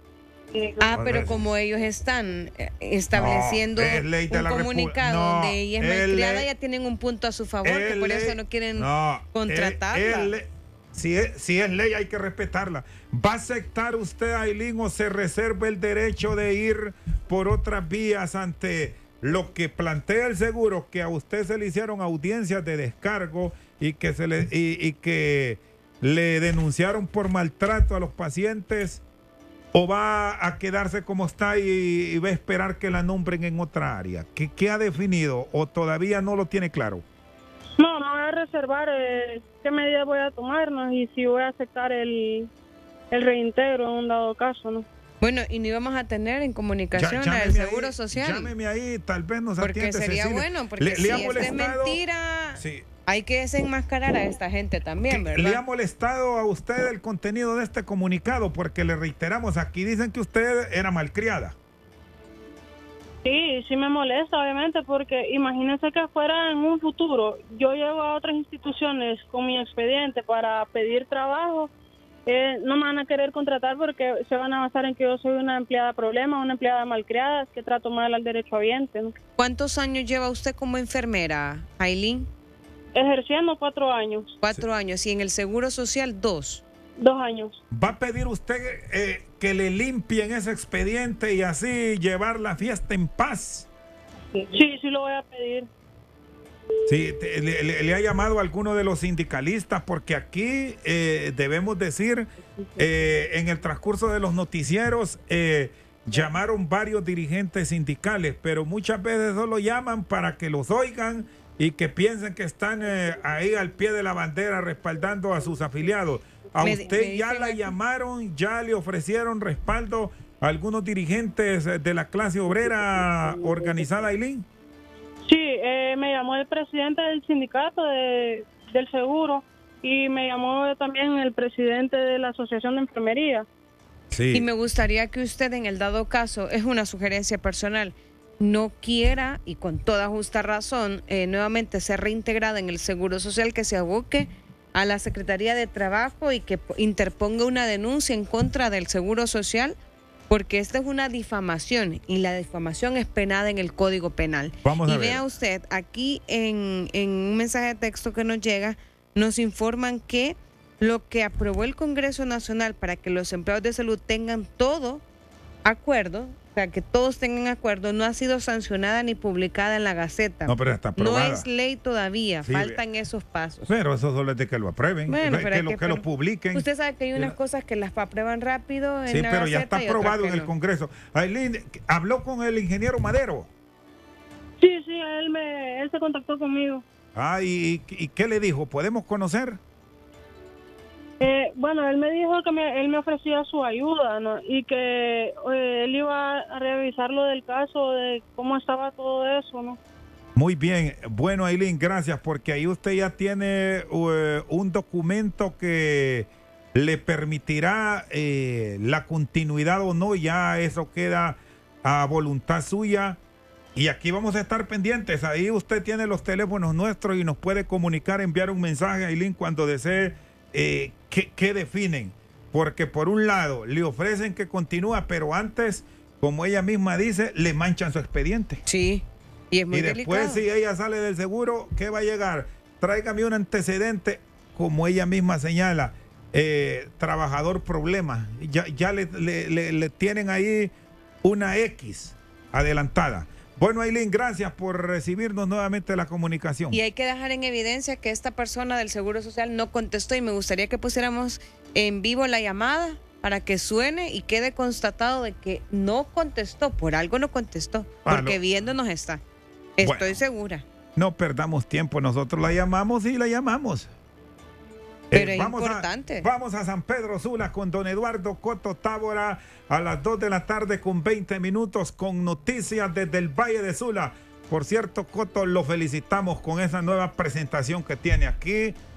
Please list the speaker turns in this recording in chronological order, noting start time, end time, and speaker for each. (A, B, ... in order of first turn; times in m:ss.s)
0:00.5-0:01.3 A
0:00.8-0:10.3 B
0:01.0-0:01.4 C
0:03.2-0:06.5 C
0:07.6-0:29.0 C
0:29.7-0:37.0 C
0:37.8-0:42.5 A
0:43.1-0:44.9 A
0:45.2-0:48.5 B
0:46.9-0:52.0 C
0:49.6-0:55.6 B
0:52.6-0:52.9 C
0:55.0-1:01.6 C
1:03.2-1:11.7 A
1:12.3-1:19.2 A
1:19.4-1:22.3 B
1:22.9-1:24.4 A
1:24.4-1:26.6 B
1:27.0-1:27.6 A
1:27.7-1:33.7 C
1:34.3-1:35.7 A
1:36.9-2:04.5 C
1:56.6-1:57.7 B
2:05.2-2:13.4 A
2:14.1-2:14.5 C
2:14.3-2:29.8 B
2:30.3-2:45.0 B
2:34.6-2:35.2 C
2:45.6-2:53.7 B
2:50.5-2:51.5 C
2:52.4-2:52.8 C
2:53.7-2:57.4 C
2:55.1-3:00.5 B
2:59.1-3:03.5 C
3:04.6-3:06.8 A
3:07.2-3:09.6 C
3:11.2-3:19.8 A
3:20.4-3:33.2 C
3:33.8-3:48.6 C
3:48.7-3:50.4 B
3:49.7-4:00.7 C
4:01.2-4:06.8 C
4:06.7-4:19.2 B
4:18.0-4:18.4 C
4:19.8-4:20.6 B
4:19.8-4:20.2 C
4:21.0-4:23.9 C
4:25.1-4:38.8 C
4:25.1-4:26.3 B